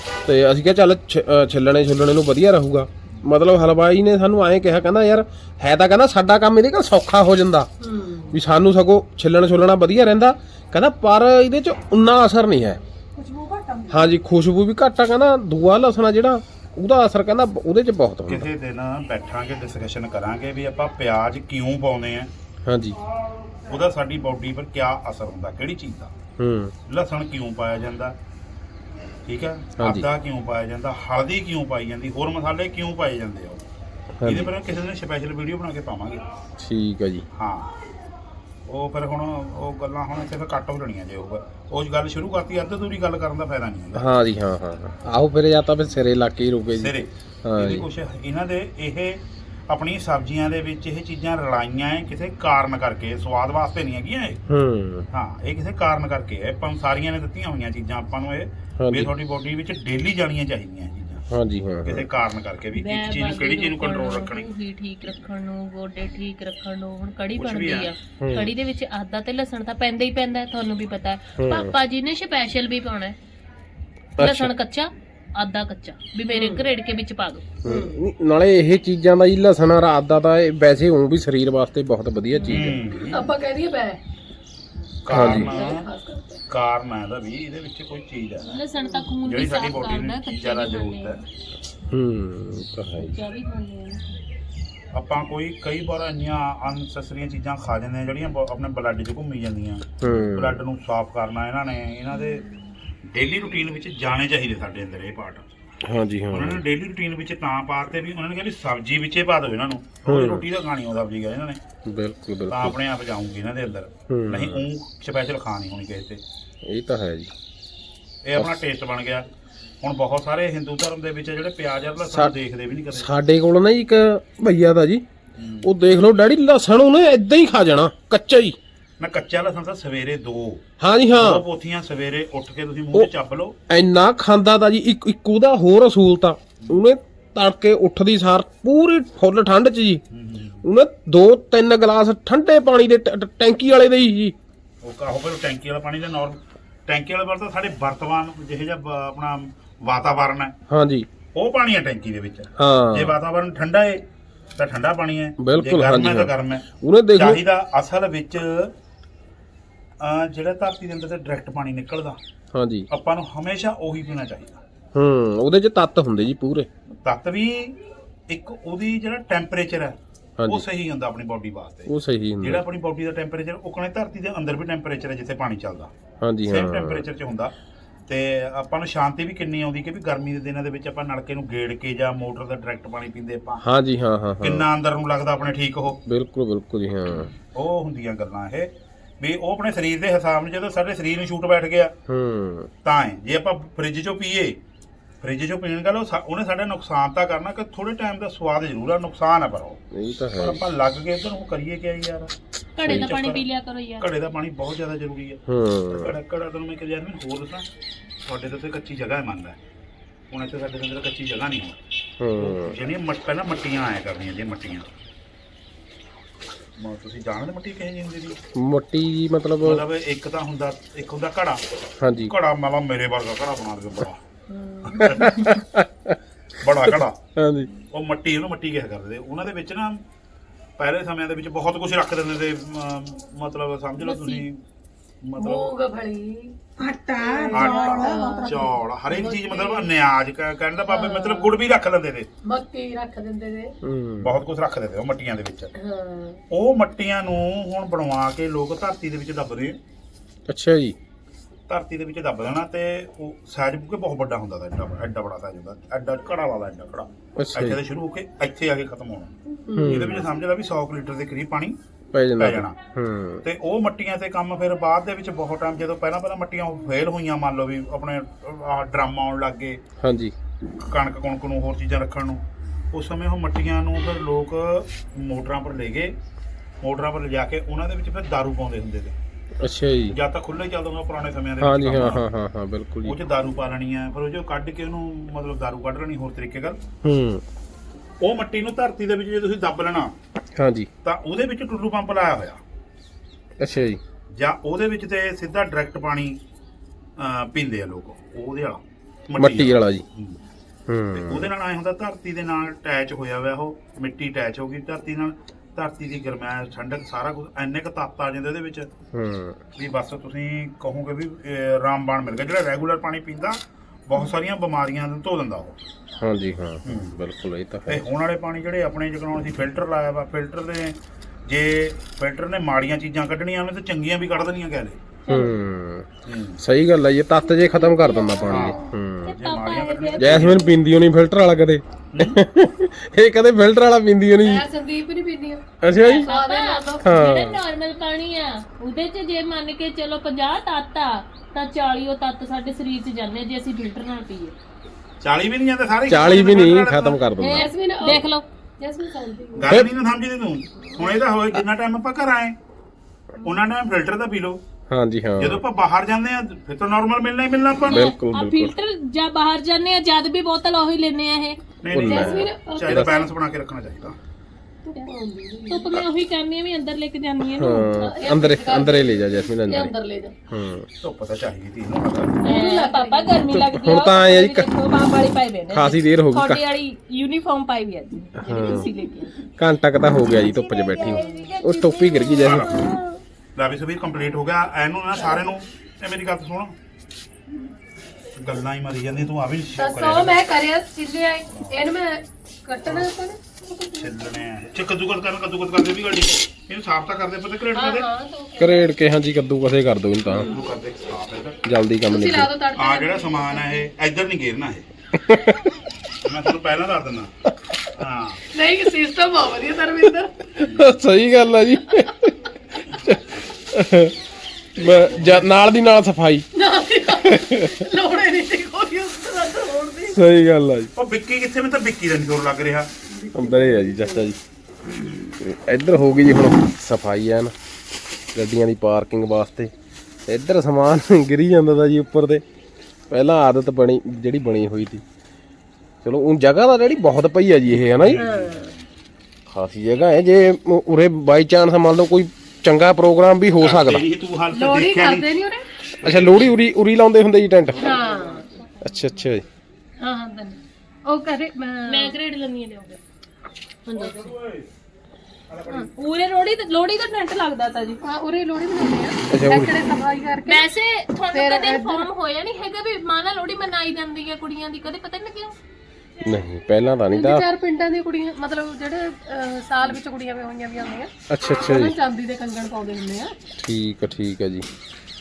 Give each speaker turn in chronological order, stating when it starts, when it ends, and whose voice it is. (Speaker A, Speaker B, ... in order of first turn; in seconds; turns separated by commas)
Speaker A: 0.2-7.7, Speaker B: 7.8-8.4, Speaker A: 8.3-12.8, Speaker C: 13.2-14.2, Speaker A: 13.9-18.5, Speaker D: 18.3-22.3, Speaker A: 22.6-23.0, Speaker D: 23.7-26.1, Speaker A: 26.4-26.7, Speaker D: 26.9-28.2, Speaker D: 29.3-33.6, Speaker A: 29.8-30.1, Speaker A: 34.2-34.5, Speaker D: 34.2-36.2, Speaker A: 36.6-37.2, Speaker D: 37.3-37.7, Speaker D: 38.7-44.1, Speaker A: 44.0-47.9, Speaker D: 46.8-54.4, Speaker A: 54.5-55.1, Speaker D: 55.1-61.2, Speaker A: 58.8-59.1, Speaker A: 61.3-62.1, Speaker D: 61.8-64.5, Speaker E: 62.8-73.2, Speaker D: 67.4-67.9, Speaker A: 68.2-68.5, Speaker A: 71.4-71.8, Speaker A: 74.2-74.5, Speaker E: 74.2-77.5, Speaker B: 76.3-76.7, Speaker A: 77.6-82.8, Speaker B: 77.7-78.0, Speaker D: 82.5-83.3, Speaker B: 83.0-84.0, Speaker D: 85.0-85.9, Speaker A: 85.1-85.5, Speaker B: 85.2-86.4, Speaker D: 86.5-88.6, Speaker E: 88.5-91.2, Speaker B: 88.8-89.1, Speaker D: 89.2-91.2, Speaker A: 91.9-93.2, Speaker E: 93.1-94.0, Speaker D: 94.9-102.5, Speaker A: 100.0-100.6, Speaker D: 103.1-105.5, Speaker A: 105.8-106.6, Speaker D: 106.3-111.6, Speaker A: 110.1-110.5, Speaker A: 111.8-112.8, Speaker D: 112.5-116.2, Speaker A: 114.1-114.7, Speaker A: 116.7-117.3, Speaker D: 118.2-119.3, Speaker A: 118.4-118.6, Speaker D: 119.8-123.1, Speaker A: 122.0-122.3, Speaker A: 122.9-125.0, Speaker D: 125.4-125.7, Speaker A: 125.6-128.6, Speaker D: 129.0-133.6, Speaker A: 130.8-131.4, Speaker A: 133.7-140.0, Speaker D: 140.1-140.6, Speaker A: 140.6-144.3, Speaker D: 144.8-150.5, Speaker A: 150.7-151.1, Speaker D: 151.3-154.1, Speaker A: 152.6-153.2, Speaker D: 154.6-158.7, Speaker A: 155.4-157.4, Speaker D: 160.0-162.2, Speaker A: 162.5-162.9, Speaker D: 162.9-164.6, Speaker A: 164.9-166.7, Speaker D: 167.0-167.8, Speaker D: 168.3-175.9, Speaker A: 170.4-170.7, Speaker A: 171.9-172.6, Speaker A: 176.2-177.1, Speaker D: 176.5-177.5, Speaker D: 178.1-183.6, Speaker A: 183.6-184.7, Speaker D: 184.4-186.0, Speaker A: 186.1-187.3, Speaker D: 187.1-191.9, Speaker A: 192.1-192.7, Speaker D: 192.8-194.6, Speaker D: 195.2-199.8, Speaker A: 199.9-200.6, Speaker D: 200.4-203.4, Speaker E: 202.8-204.1, Speaker D: 204.0-207.7, Speaker A: 205.5-206.2, Speaker D: 208.2-209.6, Speaker D: 210.3-211.8, Speaker A: 212.2-212.8, Speaker D: 212.4-214.9, Speaker D: 216.8-218.4, Speaker A: 218.6-219.8, Speaker D: 219.6-221.6, Speaker A: 222.0-222.3, Speaker D: 222.1-224.2, Speaker D: 224.9-225.6, Speaker A: 224.9-226.2, Speaker D: 226.6-227.2, Speaker A: 226.8-227.7, Speaker D: 227.9-230.0, Speaker D: 230.8-234.6, Speaker B: 234.1-234.4, Speaker D: 235.2-235.8, Speaker B: 235.4-236.6, Speaker C: 236.8-238.7, Speaker B: 237.2-239.9, Speaker D: 237.5-242.3, Speaker B: 240.9-241.5, Speaker B: 242.4-243.7, Speaker A: 243.8-244.4, Speaker D: 244.2-245.7, Speaker B: 245.8-246.4, Speaker D: 246.5-249.8, Speaker A: 250.5-251.0, Speaker D: 251.7-261.8, Speaker A: 257.4-257.8, Speaker B: 259.6-260.1, Speaker A: 259.8-260.2, Speaker A: 262.1-263.4, Speaker D: 262.4-262.8, Speaker D: 263.4-269.8, Speaker A: 270.0-270.4, Speaker D: 270.9-276.1, Speaker D: 276.8-279.2, Speaker A: 279.6-280.2, Speaker D: 280.1-282.2, Speaker A: 281.6-283.2, Speaker D: 283.0-286.8, Speaker A: 287.0-287.4, Speaker D: 288.2-290.1, Speaker A: 290.6-290.9, Speaker D: 291.0-292.6, Speaker A: 293.6-294.0, Speaker D: 294.3-296.4, Speaker D: 297.2-300.4, Speaker A: 299.4-300.0, Speaker A: 300.9-301.5, Speaker D: 301.1-308.9, Speaker A: 309.1-309.6, Speaker D: 309.8-315.8, Speaker A: 316.2-318.1, Speaker D: 316.9-317.1, Speaker D: 317.9-325.0, Speaker A: 325.3-326.1, Speaker D: 326.3-326.6, Speaker A: 326.6-329.4, Speaker E: 327.8-328.7, Speaker D: 328.5-328.8, Speaker E: 329.2-330.7, Speaker D: 329.3-330.7, Speaker A: 330.2-334.7, Speaker D: 332.1-332.4, Speaker B: 334.4-337.2, Speaker A: 335.8-336.3, Speaker E: 335.9-344.6, Speaker A: 337.0-337.6, Speaker D: 345.2-347.2, Speaker A: 346.1-347.7, Speaker E: 347.4-348.4, Speaker B: 347.4-349.8, Speaker D: 349.6-352.6, Speaker D: 353.4-354.6, Speaker A: 354.9-355.6, Speaker D: 355.4-358.1, Speaker E: 357.9-361.6, Speaker A: 357.9-358.7, Speaker D: 361.8-364.2, Speaker A: 361.9-363.2, Speaker B: 362.0-363.3, Speaker B: 364.8-366.0, Speaker E: 365.7-368.2, Speaker A: 367.6-369.9, Speaker B: 368.1-370.3, Speaker A: 370.5-370.9, Speaker D: 371.0-372.4, Speaker B: 372.4-373.4, Speaker E: 372.4-379.4, Speaker A: 373.5-374.7, Speaker A: 375.7-376.6, Speaker A: 378.4-378.9, Speaker A: 379.6-382.8, Speaker E: 380.9-383.2, Speaker B: 381.1-381.6, Speaker D: 382.4-382.7, Speaker D: 383.6-386.8, Speaker B: 385.2-385.5, Speaker D: 388.4-390.4, Speaker B: 389.8-394.1, Speaker D: 391.5-391.8, Speaker D: 394.0-398.1, Speaker B: 397.8-398.9, Speaker A: 398.6-400.5, Speaker D: 400.3-401.6, Speaker A: 401.6-402.5, Speaker B: 402.1-403.9, Speaker D: 402.8-404.9, Speaker A: 405.1-405.6, Speaker D: 406.2-407.3, Speaker D: 408.0-408.4, Speaker B: 408.5-410.3, Speaker D: 410.6-410.9, Speaker A: 410.6-414.1, Speaker D: 414.8-415.6, Speaker A: 414.8-416.5, Speaker B: 416.6-420.2, Speaker A: 417.1-417.9, Speaker A: 420.1-420.9, Speaker D: 420.9-422.9, Speaker B: 423.2-424.3, Speaker A: 423.3-424.4, Speaker A: 425.4-427.5, Speaker A: 428.3-429.7, Speaker A: 430.3-432.4, Speaker A: 433.1-435.0, Speaker A: 436.0-438.2, Speaker D: 438.0-438.8, Speaker B: 438.2-438.8, Speaker A: 439.5-444.1, Speaker D: 443.6-445.3, Speaker B: 444.5-445.7, Speaker A: 446.0-447.9, Speaker D: 446.0-446.6, Speaker E: 447.8-448.4, Speaker B: 447.8-448.4, Speaker D: 447.9-448.3, Speaker A: 448.8-449.4, Speaker B: 450.0-452.2, Speaker E: 451.9-453.0, Speaker E: 453.9-454.3, Speaker D: 453.9-454.7, Speaker D: 455.5-455.9, Speaker E: 455.7-458.0, Speaker B: 458.0-460.7, Speaker A: 459.3-459.7, Speaker E: 460.5-465.6, Speaker B: 461.3-462.1, Speaker A: 466.2-467.4, Speaker B: 467.1-473.4, Speaker A: 471.3-471.9, Speaker A: 473.6-474.7